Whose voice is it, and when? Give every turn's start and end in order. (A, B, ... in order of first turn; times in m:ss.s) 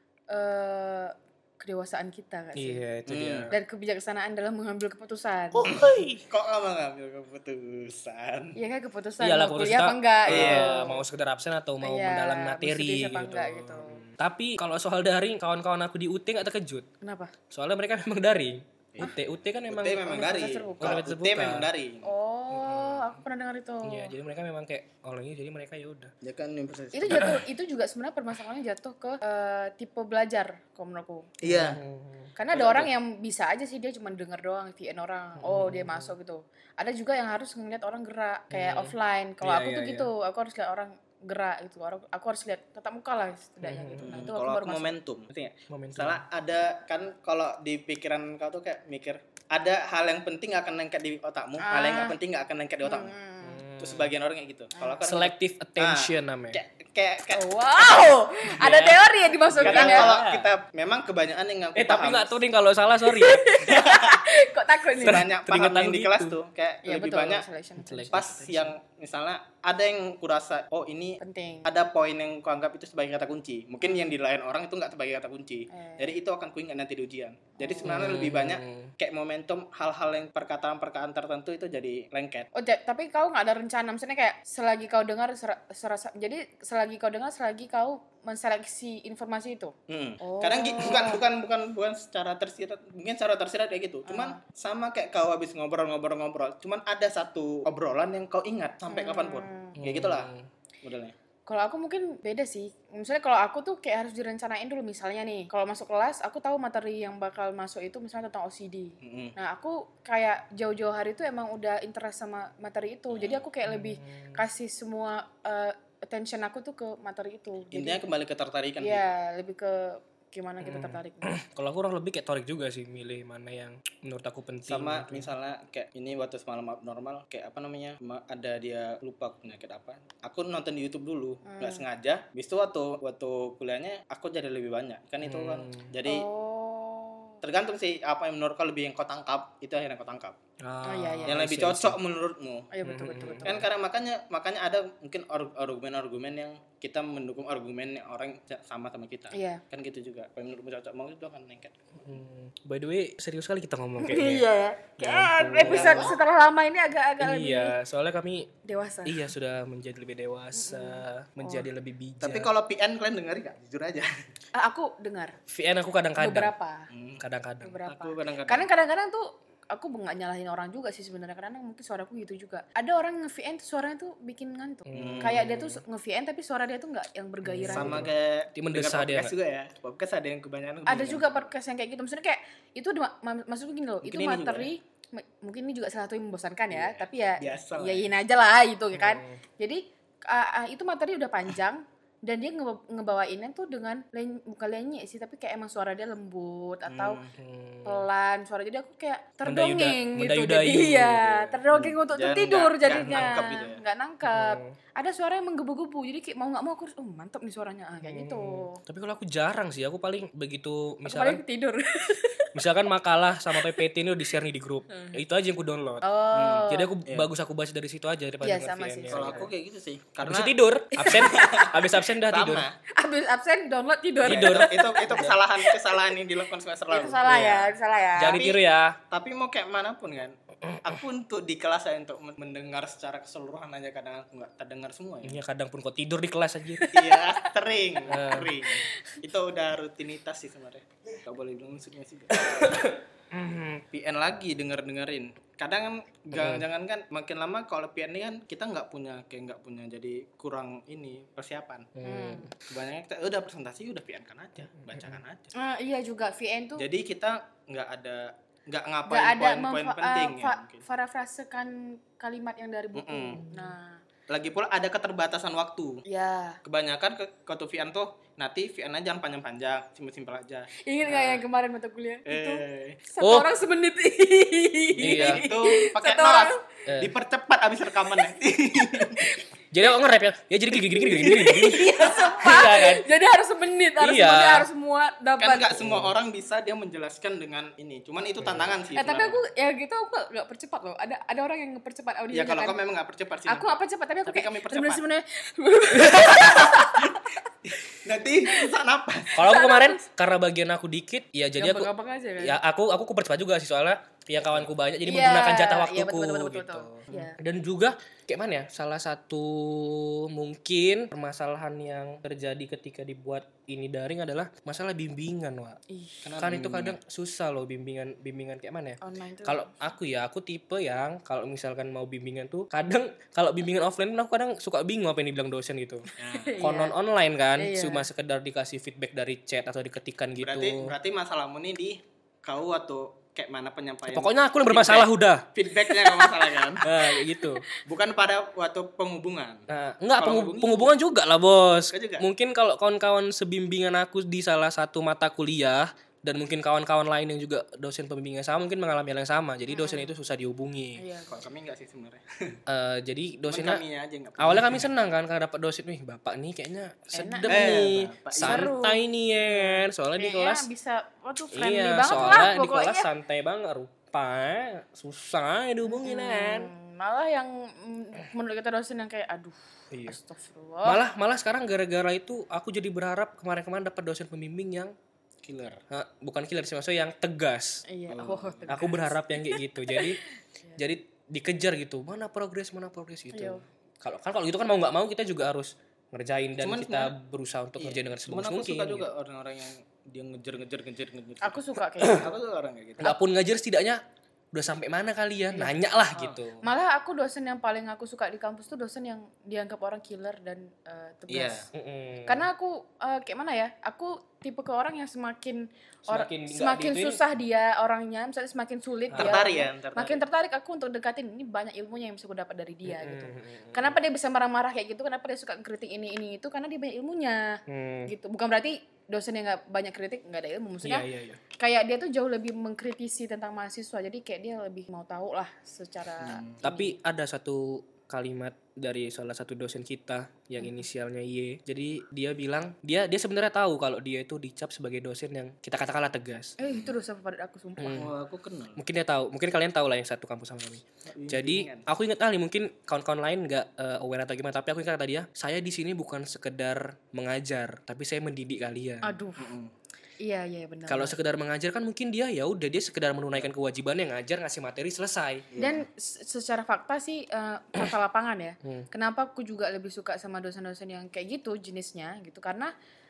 0:00.3-0:02.8 A
0:02.6-0:03.5 B
0:03.1-0:03.5 C
0:03.5-0:05.6 A
0:05.5-0:06.2 B
0:05.7-0:08.6 C
0:08.6-0:11.0 A
0:09.2-0:16.9 B
0:10.3-0:10.7 C
0:11.8-0:14.0 A
0:17.0-0:17.3 A
0:17.5-0:20.0 B
0:19.7-0:22.1 C
0:20.0-0:21.0 A
0:20.8-0:21.7 B
0:22.0-0:24.1 A
0:22.5-0:23.2 B
0:23.8-0:26.1 B
0:26.2-0:27.4 C
0:26.9-0:31.4 A
0:27.1-0:27.4 B
0:31.4-0:31.8 C
0:31.4-0:32.3 B
0:32.4-0:44.9 A
0:32.5-0:32.9 C
0:35.4-0:36.2 B
0:38.5-0:40.1 B
0:43.6-0:44.2 B
0:44.0-0:53.1 C
0:45.7-0:46.2 B
0:51.6-0:52.2 A
0:52.8-0:53.6 A
0:53.4-0:54.1 B
0:53.8-0:57.6 C
0:54.8-0:55.0 A
0:55.0-0:56.6 B
0:57.3-1:00.1 A
0:58.5-1:00.5 B
0:59.6-1:02.4 C
1:01.7-1:03.6 B
1:03.0-1:05.3 A
1:03.7-1:04.2 C
1:05.0-1:07.4 C
1:05.0-1:06.4 B
1:06.8-1:08.4 A
1:07.8-1:08.7 B
1:08.1-1:22.5 C
1:11.2-1:11.7 A
1:13.8-1:14.1 A
1:15.7-1:16.2 A
1:17.6-1:18.1 A
1:17.8-1:18.9 B
1:22.5-1:31.2 A
1:29.9-1:40.3 C
1:34.1-1:34.4 A
1:38.9-1:39.8 A
1:39.8-1:40.5 B
1:40.8-1:41.1 C
1:41.5-1:58.0 A
1:49.0-1:49.4 C
1:53.1-1:53.4 C
1:53.6-1:54.4 B
1:57.7-1:59.0 C
1:58.8-2:01.3 A
2:00.6-2:05.3 B
2:04.7-2:16.3 C
2:11.4-2:11.8 A
2:15.2-2:15.9 B
2:16.0-2:17.4 A
2:17.4-2:20.4 C
2:20.6-2:22.0 B
2:20.8-2:21.4 A
2:21.3-2:22.7 C
2:22.7-2:23.6 A
2:22.8-2:23.6 B
2:23.4-2:31.7 C
2:29.3-2:29.6 A
2:32.0-2:36.1 B
2:34.0-2:37.8 A
2:35.4-2:36.2 C
2:37.2-2:38.5 B
2:38.6-2:39.3 A
2:39.0-2:42.5 B
2:40.5-2:41.7 A
2:42.2-2:44.1 C
2:44.5-2:45.4 A
2:45.5-2:46.5 B
2:46.2-2:46.9 A
2:46.9-2:47.2 C
2:47.2-2:47.8 B
2:47.6-2:58.1 A
2:47.8-2:48.7 C
2:54.9-2:55.8 B
2:54.9-2:55.4 C
2:57.4-2:59.3 B
2:57.7-3:01.5 C
3:00.8-3:17.2 A
3:04.0-3:04.7 C
3:06.7-3:08.1 C
3:08.9-3:09.4 B
3:16.9-3:17.3 C
3:17.3-3:18.1 B
3:17.8-3:28.8 A
3:19.4-3:21.6 B
3:21.7-3:23.8 C
3:24.2-3:24.7 B
3:28.0-3:31.4 B
3:31.0-3:32.5 A
3:32.5-3:39.5 B
3:34.9-3:35.2 A
3:36.0-3:36.9 A
3:36.3-3:37.3 C
3:38.4-3:39.4 A
3:39.1-3:42.8 C
3:40.2-3:42.6 B
3:41.0-3:41.4 A
3:42.9-3:46.0 A
3:44.2-3:45.4 B
3:44.2-3:47.4 C
3:46.9-3:48.6 A
3:47.3-3:49.0 B
3:49.1-3:55.4 C
3:50.6-3:51.0 B
3:55.2-3:57.0 B
3:56.8-3:57.4 A
3:56.9-4:02.8 C
3:58.1-3:58.5 B
3:58.8-3:59.2 A
4:02.4-4:03.8 B
4:03.9-4:12.0 C
4:06.3-4:06.6 B
4:12.0-4:12.5 B
4:12.0-4:12.5 A
4:12.7-4:15.5 C
4:15.5-4:16.8 A
4:16.8-4:20.8 C
4:19.1-4:24.0 A
4:22.9-4:23.4 C
4:24.3-4:26.0 C
4:26.0-4:26.6 A
4:26.6-4:31.4 C
4:30.8-4:36.6 A
4:32.2-4:33.0 C
4:33.2-4:33.5 B
4:35.0-4:35.4 B
4:35.0-4:39.4 C
4:36.9-4:37.1 B
4:38.9-4:39.4 A
4:39.7-4:43.0 B
4:40.7-4:45.8 A
4:44.0-4:44.7 B
4:45.4-4:49.4 C
4:45.8-4:46.1 B
4:48.4-4:48.7 B
4:48.9-4:52.8 A
4:52.3-4:55.0 C
4:53.4-4:57.4 A
4:56.1-4:59.4 C
4:58.5-4:58.8 A
4:59.3-5:00.0 A
4:59.3-5:15.8 B
5:01.6-5:02.6 A
5:05.0-5:07.4 A
5:15.9-5:16.3 A
5:16.2-5:17.0 C
5:16.4-5:30.9 B
5:19.0-5:19.7 A
5:26.2-5:26.6 C
5:26.2-5:27.0 A
5:27.6-5:28.1 A
5:30.4-5:36.9 C
5:34.1-5:35.5 B
5:35.9-5:36.4 A
5:36.8-5:37.6 B
5:37.0-5:37.8 A
5:37.8-5:39.6 C
5:39.7-5:51.0 B
5:40.2-5:40.9 C
5:41.9-5:42.2 C
5:49.7-5:50.2 A
5:51.0-5:51.4 A
5:51.3-5:52.6 C
5:52.7-5:53.8 B
5:53.5-5:54.9 C
5:54.4-6:00.7 B
5:57.1-6:03.1 A
5:57.4-5:58.7 C
6:01.5-6:06.7 B
6:02.1-6:02.5 C
6:05.8-6:11.0 A
6:09.9-6:10.2 B
6:10.8-6:14.9 B
6:15.4-6:15.8 C
6:15.9-6:17.8 B
6:17.9-6:20.8 A
6:18.1-6:18.8 C
6:18.7-6:20.2 B
6:20.8-6:29.1 B
6:23.3-6:23.6 A
6:26.6-6:27.1 C
6:27.8-6:33.1 C
6:31.4-6:32.3 A
6:32.0-6:32.3 B
6:33.0-6:34.0 B
6:34.5-6:36.6 B
6:36.6-6:41.7 A
6:41.3-6:41.7 C
6:41.7-6:42.5 B
6:42.2-7:01.1 A
6:46.1-6:47.2 B
6:49.1-6:49.4 B
6:49.1-6:50.2 C
6:52.8-6:54.0 B
6:57.7-6:58.1 B
7:00.8-7:01.4 B
7:01.6-7:06.9 A
7:06.2-7:06.6 C
7:06.6-7:16.6 B
7:16.6-7:18.1 A
7:17.8-7:18.1 B
7:17.9-7:18.8 C
7:18.8-7:29.2 B
7:21.0-7:21.9 C
7:29.0-7:29.5 A
7:29.4-7:29.7 C
7:30.2-7:31.2 A
7:30.9-7:35.5 B
7:35.5-7:35.8 C
7:35.6-7:42.7 A